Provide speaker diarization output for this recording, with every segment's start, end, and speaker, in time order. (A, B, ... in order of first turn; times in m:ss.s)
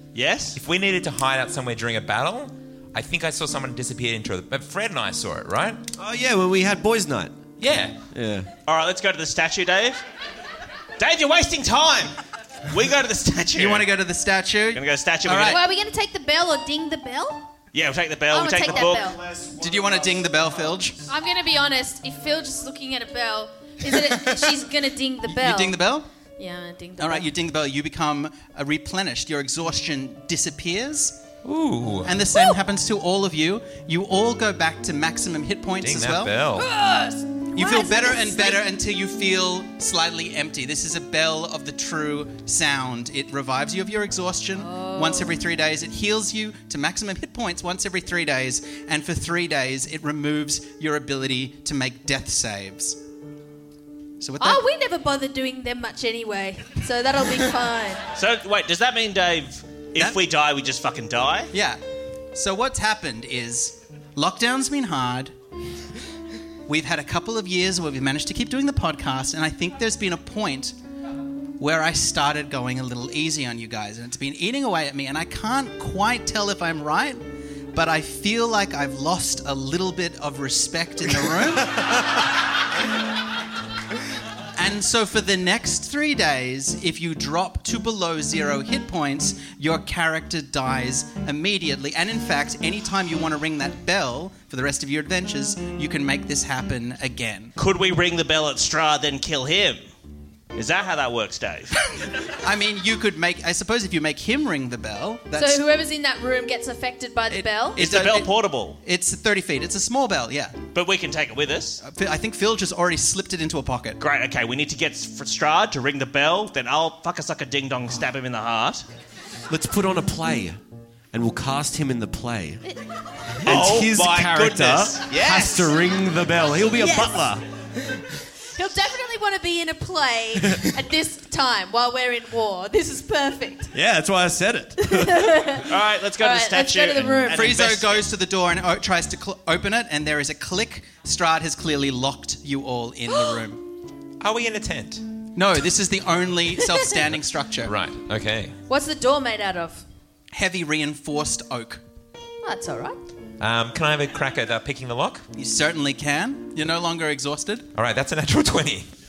0:00.1-0:00.6 A
0:00.5-0:05.8 B
0:06.0-0:07.4 C
0:07.6-0:08.0 B
0:08.1-0:08.5 C
0:08.6-0:10.0 A
0:11.0-0:12.1 A
0:12.7-0:13.9 A
0:13.6-0:15.6 D
0:14.7-0:15.6 A
0:15.5-0:17.4 E
0:17.7-0:19.2 A
0:18.3-0:19.2 E
0:19.0-0:20.4 C
0:19.6-0:21.0 D
0:21.1-0:25.8 E
0:25.3-0:26.1 D
0:26.4-0:27.3 E
0:27.0-0:31.2 D
0:31.4-0:32.2 B
0:32.0-0:36.4 D
0:35.8-0:36.7 B
0:36.6-0:38.7 E
0:37.5-0:53.0 D
0:44.6-0:45.4 E
0:54.2-0:54.6 D
0:54.4-0:58.0 E
0:58.1-1:01.5 A
1:01.5-1:01.8 D
1:02.3-1:05.3 D
1:06.7-1:10.8 D
1:11.6-1:21.9 D
1:24.6-1:37.5 D
1:37.6-1:39.8 A
1:40.5-1:41.8 A
1:42.2-1:45.6 D
1:45.3-1:47.8 E
1:47.3-1:48.3 D
1:47.8-1:48.8 A
1:48.8-1:50.6 D
1:50.7-1:51.8 A
1:51.8-1:54.0 D
1:54.0-1:58.8 A
1:59.5-2:00.6 C
2:01.1-2:02.6 C
2:03.4-2:05.7 A
2:03.4-2:07.4 C
2:06.5-2:07.3 E
2:08.5-2:13.7 E
2:13.7-2:15.2 C
2:14.8-2:17.5 E
2:15.6-2:18.0 A
2:17.3-2:23.6 D
2:23.1-2:23.4 E
2:24.2-2:25.0 B
2:25.3-2:27.7 D
2:27.6-2:28.6 B
2:28.7-2:29.8 E
2:30.3-2:31.8 D
2:32.4-2:33.0 E
2:33.4-2:35.2 B
2:35.3-2:37.7 D
2:37.7-2:38.9 B